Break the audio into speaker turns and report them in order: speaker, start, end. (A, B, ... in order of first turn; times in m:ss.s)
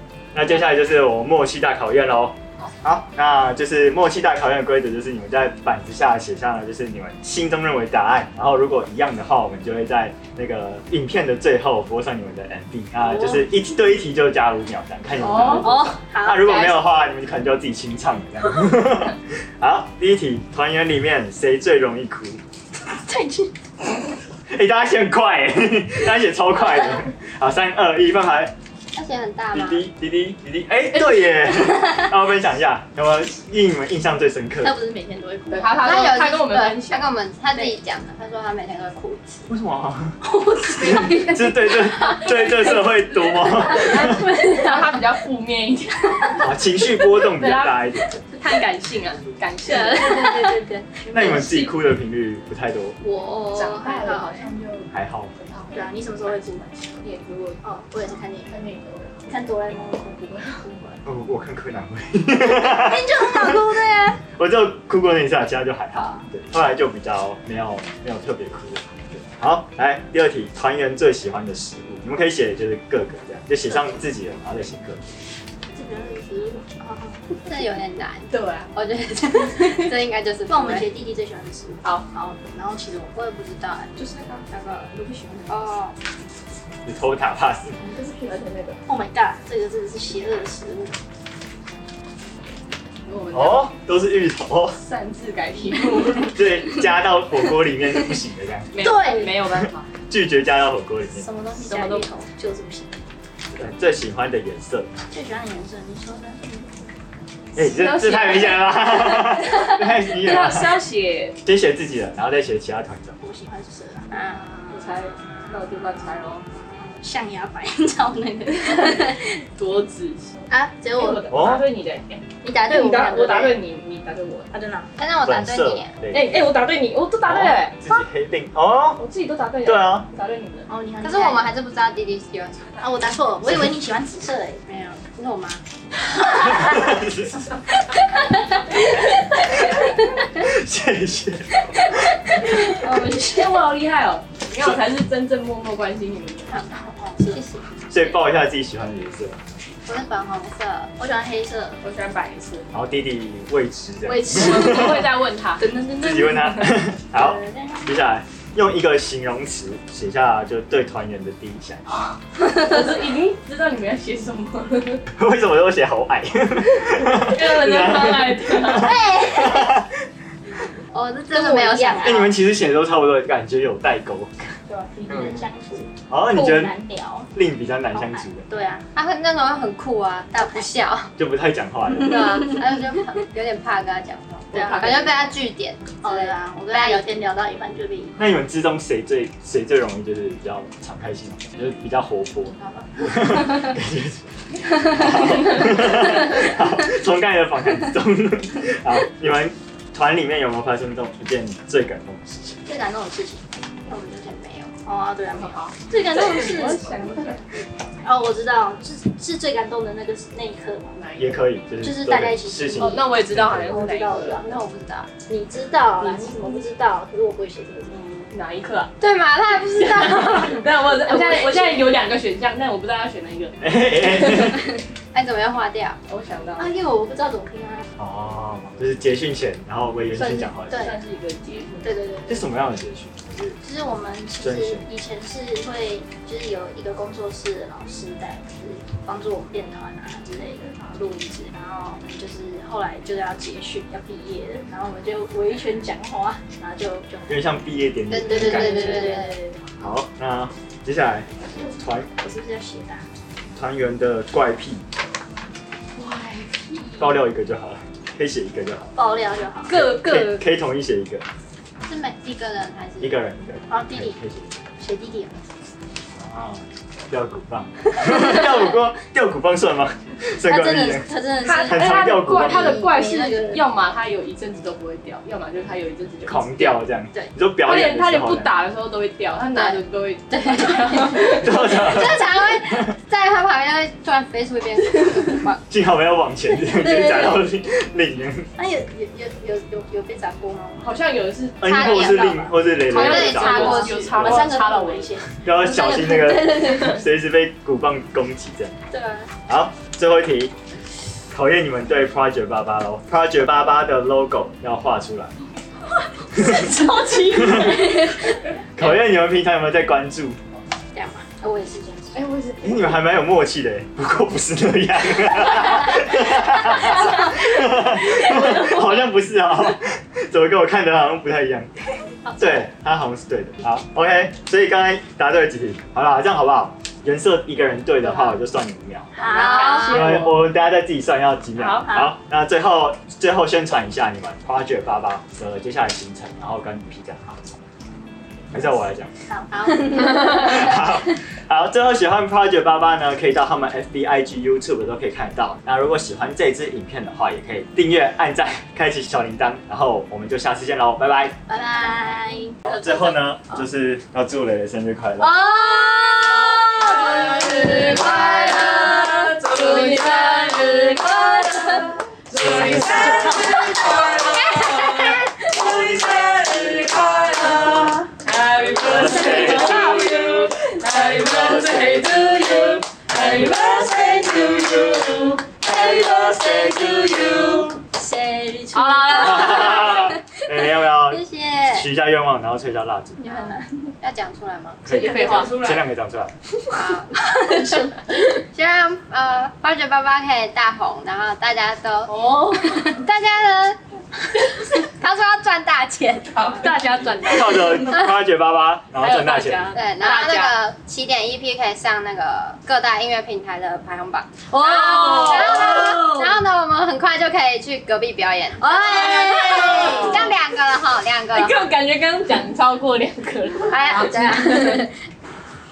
0:00.3-0:22.4 A
0:13.0-0:13.5 B
0:15.2-0:16.8 C
0:15.4-0:16.7 B
0:23.0-0:23.5 B
0:24.5-0:28.5 A
0:28.9-0:29.8 D
0:29.5-0:34.8 A
0:31.7-0:32.0 B
0:34.6-0:35.9 B
0:35.5-0:37.1 C
0:35.8-0:39.5 D
0:39.5-0:40.2 A
0:40.2-0:42.4 B
0:40.7-0:44.3 A
0:42.8-0:51.8 C
0:43.6-0:45.0 B
0:46.4-0:48.3 A
0:49.6-0:51.5 B
0:51.1-0:53.0 A
0:53.0-0:54.5 B
0:53.5-0:57.6 C
0:54.9-0:55.3 A
0:55.7-0:56.7 B
0:57.6-0:58.6 B
0:58.5-0:59.3 C
0:59.3-1:00.2 B
1:00.1-1:01.0 C
1:01.0-1:03.7 A
1:02.5-1:04.2 B
1:04.3-1:15.1 A
1:06.0-1:06.2 B
1:15.7-1:17.2 B
1:17.4-1:20.8 D
1:18.3-1:18.7 C
1:20.5-1:23.2 B
1:23.1-1:23.9 D
1:24.0-1:25.6 C
1:25.5-1:26.0 D
1:26.8-1:27.8 A
1:27.8-1:28.8 C
1:28.9-1:31.0 B
1:33.1-1:33.7 C
1:33.3-1:34.8 A
1:34.8-1:36.5 C
1:36.3-1:38.7 A
1:38.7-1:39.9 C
1:38.8-1:39.6 B
1:40.1-1:41.3 A
1:41.2-1:43.0 B
1:41.6-1:42.1 C
1:43.5-1:44.9 A
1:45.1-1:46.9 B
1:47.6-1:50.8 A
1:47.6-1:51.4 C
1:51.4-1:53.2 A
1:53.2-1:59.4 B
1:54.1-1:54.4 D
1:54.7-1:56.5 C
1:58.6-2:04.5 C
2:00.5-2:01.3 B
2:01.3-2:01.6 A
2:02.4-2:03.6 B
2:04.5-2:04.9 B
2:05.0-2:05.9 D
2:05.2-2:06.5 A
2:06.1-2:07.8 C
2:07.2-2:09.0 A
2:09.0-2:10.7 C
2:09.6-2:10.1 A
2:10.7-2:11.5 B
2:11.0-2:12.8 D
2:12.8-2:14.6 B
2:14.7-2:15.6 D
2:16.1-2:16.9 B
2:16.4-2:17.4 A
2:20.4-2:22.7 A
2:22.5-2:23.7 B
2:22.6-2:26.7 C
2:26.5-2:27.4 B
2:27.3-2:27.7 D
2:27.9-2:29.4 A
2:29.9-2:30.9 D
2:31.0-2:31.8 B
2:31.8-2:32.7 C
2:32.7-2:35.1 A
2:34.1-2:35.0 B
2:34.1-2:35.7 C
2:35.6-2:38.0 B
2:36.0-2:42.1 A
2:42.4-2:42.9 B
2:42.4-2:45.0 C
2:45.1-2:50.0 A
2:47.1-2:49.0 C
2:48.8-2:49.7 B
2:49.0-2:49.5 D
2:50.9-2:52.4 D
2:51.3-2:52.3 B
2:52.0-2:54.6 A
2:54.7-2:55.0 C
2:54.9-2:57.3 B
2:55.1-2:55.4 A
2:56.1-2:56.7 A
2:57.3-2:58.5 A
2:57.9-2:58.8 B
2:59.0-3:01.1 D
3:00.3-3:00.7 B
3:01.2-3:02.4 A
3:02.0-3:07.0 D
3:02.2-3:02.7 B
3:04.5-3:05.2 B
3:04.5-3:05.2 C
3:06.0-3:08.2 B
3:08.2-3:22.6 A
3:22.7-3:23.5 B
3:23.9-3:24.7 D
3:24.8-3:27.3 B
3:25.3-3:27.4 C
3:28.0-3:31.0 B
3:31.0-3:31.4 C
3:31.2-3:33.8 A
3:31.8-3:33.0 B
3:32.8-3:34.4 C
3:33.7-3:34.6 B
3:34.2-3:35.1 D
3:35.3-3:38.3 B
3:36.0-3:36.7 C
3:38.3-3:39.0 C
3:39.0-3:41.8 D
3:39.7-3:44.7 C
3:43.6-3:44.7 A
3:45.1-3:46.0 D
3:46.1-3:46.7 C
3:46.6-3:47.9 B
3:48.0-3:50.9 A
3:50.2-3:51.0 B
3:50.7-3:51.9 C
3:51.8-3:52.4 B
3:52.3-3:53.6 A
3:53.6-4:07.6 B
3:54.4-3:54.9 A
4:07.3-4:09.2 A
4:08.1-4:09.4 D
4:08.2-4:09.7 B
4:09.8-4:12.1 A
4:12.2-4:13.0 B
4:13.6-4:14.8 A
4:16.0-4:17.1 C
4:17.0-4:18.9 A
4:19.0-4:19.8 B
4:19.7-4:20.5 C
4:19.7-4:21.2 A
4:21.9-4:23.2 D
4:23.0-4:24.6 A
4:23.7-4:24.2 B
4:24.8-4:25.5 B
4:26.2-4:31.1 A
4:28.1-4:28.3 B
4:30.4-4:33.7 B
4:31.4-4:36.8 C
4:31.7-4:32.8 A
4:36.3-4:38.5 A
4:37.6-4:41.8 C
4:39.6-4:45.6 D
4:41.4-4:42.9 A
4:45.7-4:48.5 A
4:46.7-4:47.4 B
4:48.6-4:51.0 B
4:50.8-4:52.2 C
4:51.6-4:54.5 A
4:51.6-4:54.2 D
4:51.8-4:57.0 B
4:52.9-4:55.2 C
4:55.4-4:58.8 A
4:58.9-4:59.3 B
4:59.5-5:00.5 A
5:01.3-5:05.4 A
5:06.3-5:08.4 B
5:06.3-5:07.8 A
5:06.4-5:08.1 C
5:08.8-5:10.4 A
5:10.9-5:12.2 B
5:12.1-5:13.0 C
5:12.6-5:21.7 A
5:16.7-5:18.8 B
5:22.4-5:29.1 A
5:29.2-5:30.2 B
5:29.2-5:30.4 C
5:29.2-5:30.2 D
5:29.9-5:37.5 A
5:31.6-5:31.9 C
5:31.8-5:32.1 B
5:38.5-5:39.1 A
5:38.5-5:40.8 B
5:39.5-5:40.6 D
5:40.2-5:51.4 A
5:51.5-5:53.6 B
5:52.7-5:55.3 A
5:55.2-6:05.2 B
5:56.9-6:06.7 C
5:58.2-5:58.7 D
6:02.4-6:04.4 A
6:04.3-6:05.6 D
6:05.4-6:08.0 A
6:07.2-6:08.0 B
6:08.2-6:14.6 C
6:08.8-6:10.1 A
6:09.0-6:20.2 B
6:10.9-6:12.0 A
6:13.1-6:14.2 A
6:15.8-6:17.4 A
6:18.7-6:20.0 C
6:19.2-6:23.5 A
6:21.1-6:21.9 D
6:23.2-6:24.0 B
6:24.0-6:25.5 D
6:24.8-6:26.3 A
6:24.9-6:25.8 C
6:24.9-6:25.8 B
6:26.6-6:28.2 B
6:26.7-6:27.8 D
6:28.5-6:33.8 D
6:32.1-6:33.0 B
6:34.7-6:36.7 D
6:36.4-6:38.0 C
6:37.2-6:39.7 A
6:37.5-6:37.8 B
6:39.0-6:40.6 C
6:39.0-6:39.8 B
6:39.7-6:51.6 D
6:44.5-6:46.4 B
6:44.6-6:46.0 C
6:48.6-6:50.4 B
6:48.8-6:50.4 C
6:51.3-6:54.9 C
6:53.7-6:54.8 D
6:53.8-6:54.9 B